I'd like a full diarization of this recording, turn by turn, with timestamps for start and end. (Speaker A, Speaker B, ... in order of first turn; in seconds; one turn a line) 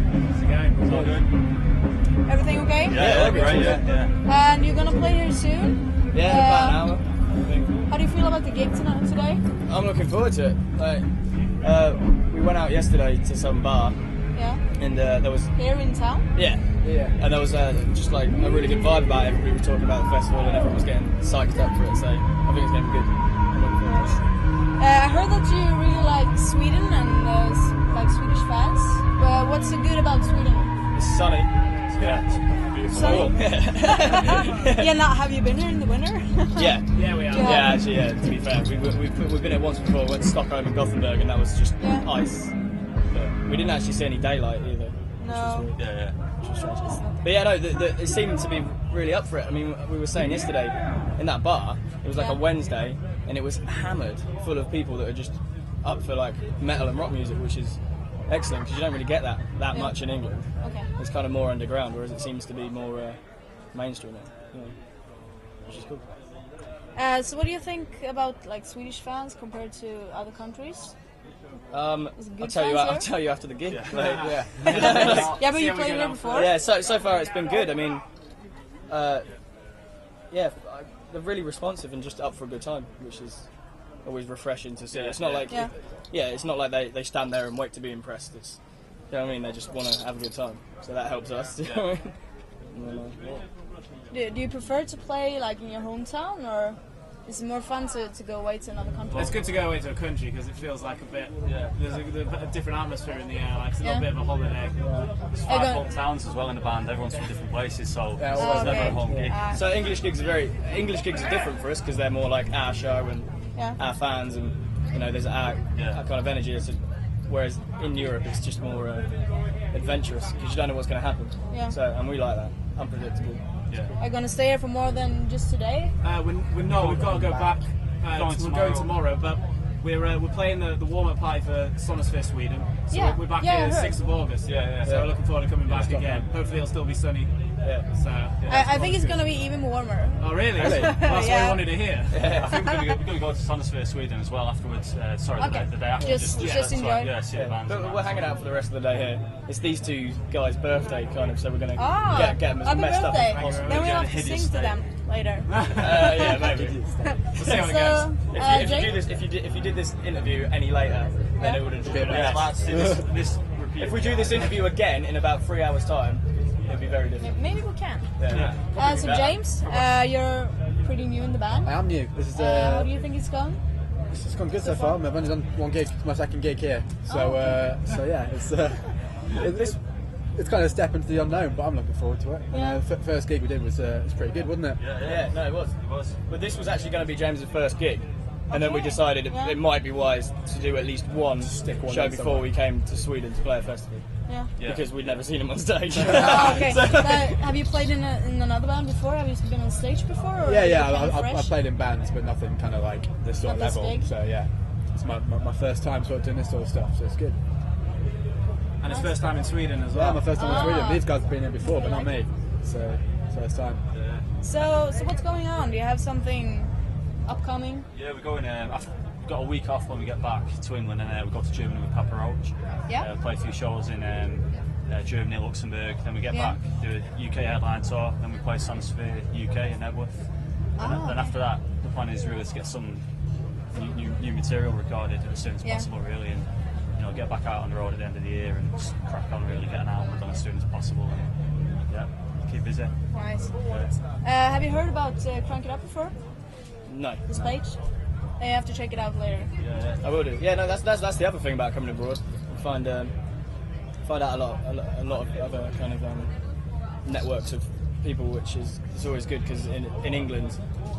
Speaker A: 0.3-1.0
Speaker B: 0.8-1.3
Speaker C: 2.3-3.0
Speaker B: 2.9-4.1
Speaker D: 2.9-3.8
Speaker C: 4.2-6.9
Speaker D: 6.1-7.0
Speaker A: 7.4-7.7
Speaker C: 7.9-9.4
Speaker D: 9.7-11.1
Speaker D: 11.6-14.0
Speaker C: 14.3-14.6
Speaker D: 14.8-15.5
Speaker C: 15.5-16.3
Speaker D: 16.3-24.2
Speaker E: 16.8-17.2
Speaker C: 23.9-24.2
Speaker C: 24.8-30.7
Speaker D: 30.9-31.5
Speaker A: 31.9-32.2
Speaker B: 32.0-33.2
Speaker C: 32.9-36.8
Speaker A: 32.9-33.3
Speaker D: 33.0-34.9
Speaker D: 36.6-42.5
Speaker A: 36.9-37.8
Speaker C: 37.3-37.8
Speaker C: 41.8-42.1
Speaker D: 43.1-63.2
Speaker C: 45.2-45.7
Speaker B: 45.8-46.2
Speaker C: 46.8-47.6
Speaker C: 52.1-52.4
Speaker C: 59.7-60.0
Speaker C: 60.6-60.9
Speaker D: 63.7-64.8
Speaker D: 65.7-66.1
Speaker C: 67.0-70.9
Speaker D: 71.7-75.4
Speaker C: 72.2-73.1
Speaker B: 73.7-75.4
Speaker A: 74.0-74.4
Speaker E: 74.0-74.7
Speaker C: 74.7-76.5
Speaker A: 75.2-76.5
Speaker D: 76.3-78.0
Speaker D: 78.9-79.3
Speaker D: 80.3-83.5
Speaker D: 84.0-88.6
Speaker B: 84.9-85.5
Speaker D: 89.1-92.2
Speaker B: 91.6-91.9
Speaker D: 92.7-93.5
Speaker C: 94.1-99.4
Speaker A: 99.1-104.8
Speaker B: 101.5-101.8
Speaker D: 104.8-105.1
Speaker B: 105.3-109.5
Speaker C: 105.5-105.9
Speaker E: 108.2-109.2
Speaker C: 108.3-109.7
Speaker D: 109.1-119.1
Speaker B: 115.7-116.0
Speaker D: 119.7-123.4
Speaker C: 121.5-121.8
Speaker C: 124.0-125.9
Speaker A: 126.0-137.3
Speaker E: 126.7-127.6
Speaker B: 128.1-128.9
Speaker C: 132.9-134.0
Speaker B: 134.4-134.9
Speaker D: 134.8-135.1
Speaker E: 135.7-136.3
Speaker D: 137.6-137.9
Speaker A: 137.9-139.2
Speaker C: 138.5-141.7
Speaker A: 140.2-142.2
Speaker D: 140.6-141.1
Speaker D: 142.1-142.6
Speaker B: 142.3-148.1
Speaker C: 145.4-147.1
Speaker A: 146.3-146.8
Speaker D: 147.3-154.0
Speaker C: 151.8-155.5
Speaker A: 153.2-154.0
Speaker B: 153.7-154.8
Speaker A: 155.5-156.3
Speaker D: 155.7-156.8
Speaker C: 156.1-156.4
Speaker E: 156.3-157.2
Speaker C: 157.0-159.1
Speaker A: 157.3-158.8
Speaker D: 157.4-157.7
Speaker D: 158.3-162.6
Speaker C: 161.4-161.7
Speaker E: 161.8-163.1
Speaker B: 161.9-164.8
Speaker D: 163.8-167.3
Speaker C: 167.2-168.1
Speaker D: 168.2-169.4
Speaker B: 168.3-168.6
Speaker C: 168.8-171.7
Speaker E: 171.7-172.9
Speaker C: 172.3-173.6
Speaker E: 174.1-179.8
Speaker C: 174.5-175.0
Speaker C: 177.1-177.6
Speaker D: 179.3-179.8
Speaker E: 180.3-184.8
Speaker C: 182.5-182.8
Speaker B: 184.8-186.2
Speaker D: 185.0-185.8
Speaker D: 186.3-194.1
Speaker C: 188.5-189.6
Speaker E: 191.4-192.5
Speaker C: 194.3-194.5
Speaker B: 194.6-195.2
Speaker D: 194.6-197.4
Speaker E: 195.9-196.8
Speaker C: 196.2-201.5
Speaker B: 196.2-197.1
Speaker E: 200.4-207.4
Speaker C: 203.4-204.1
Speaker A: 208.8-210.7
Speaker C: 208.9-209.3
Speaker E: 209.9-213.8
Speaker C: 210.3-211.1
Speaker C: 211.6-212.1
Speaker B: 213.9-214.2
Speaker C: 214.4-216.7
Speaker C: 217.2-217.9
Speaker B: 217.9-230.2
Speaker C: 226.3-226.6
Speaker C: 230.8-231.3
Speaker B: 230.8-233.0
Speaker B: 233.7-241.3
Speaker C: 235.6-235.9
Speaker B: 241.9-242.9
Speaker C: 243.1-243.5
Speaker B: 243.7-243.9
Speaker C: 244.2-246.2
Speaker D: 246.9-247.6
Speaker C: 247.3-247.8
Speaker C: 248.4-249.5
Speaker B: 249.6-250.1
Speaker D: 250.0-253.1
Speaker D: 254.1-256.3
Speaker D: 257.0-260.6